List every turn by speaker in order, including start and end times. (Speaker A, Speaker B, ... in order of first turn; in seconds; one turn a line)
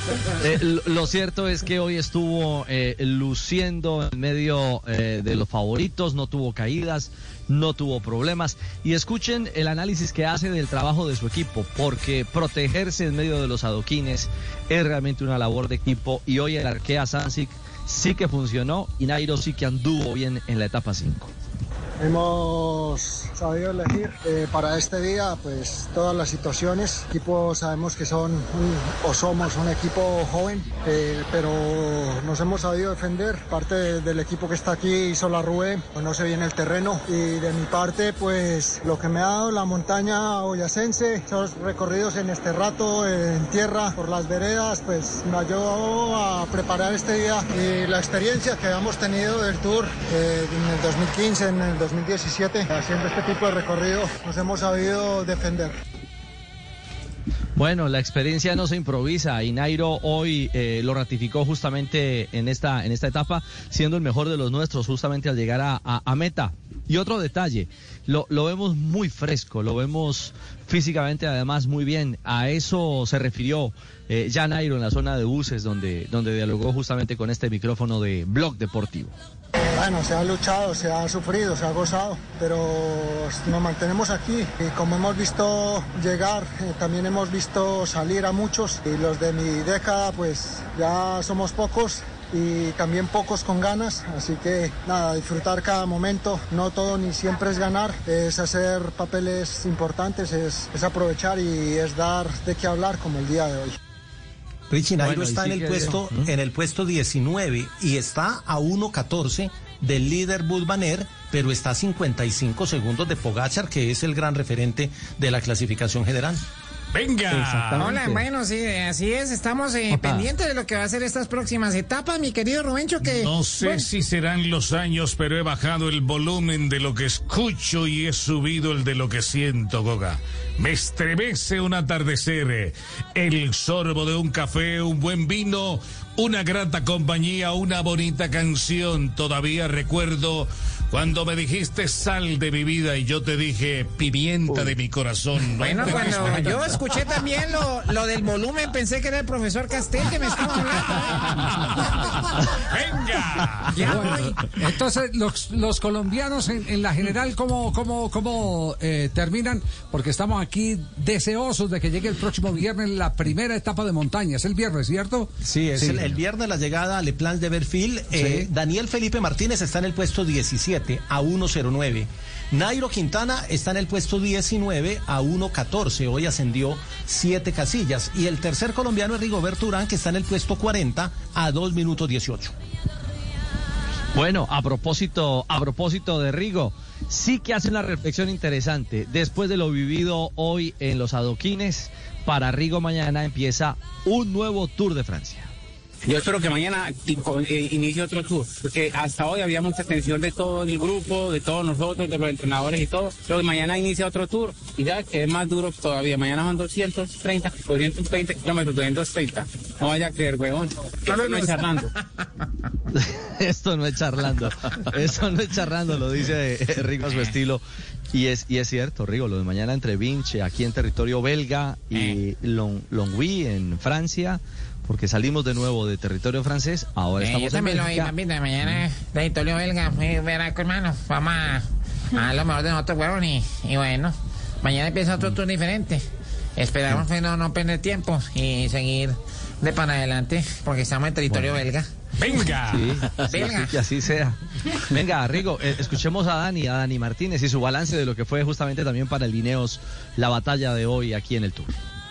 Speaker A: 0.4-21.3
Speaker B: 22.0-55.7
Speaker A: 57.6-79.1
Speaker B: 79.8-103.6
Speaker C: 104.7-116.4
Speaker A: 105.0-106.3
Speaker D: 116.9-118.0
Speaker A: 117.3-118.2
Speaker E: 117.8-123.8
Speaker A: 119.9-120.3
Speaker D: 123.0-146.8
Speaker E: 145.6-151.5
Speaker D: 152.5-154.0
Speaker E: 153.8-154.4
Speaker F: 153.8-166.2
Speaker C: 165.4-182.6
Speaker F: 168.2-168.5
Speaker A: 184.1-195.5
Speaker G: 196.1-211.8
Speaker E: 211.1-211.6
Speaker A: 212.9-228.1
Speaker E: 227.2-236.1
Speaker E: 236.6-241.9
Speaker A: 241.3-241.6
Speaker D: 242.2-242.9
Speaker A: 242.7-251.7
Speaker E: 243.3-243.7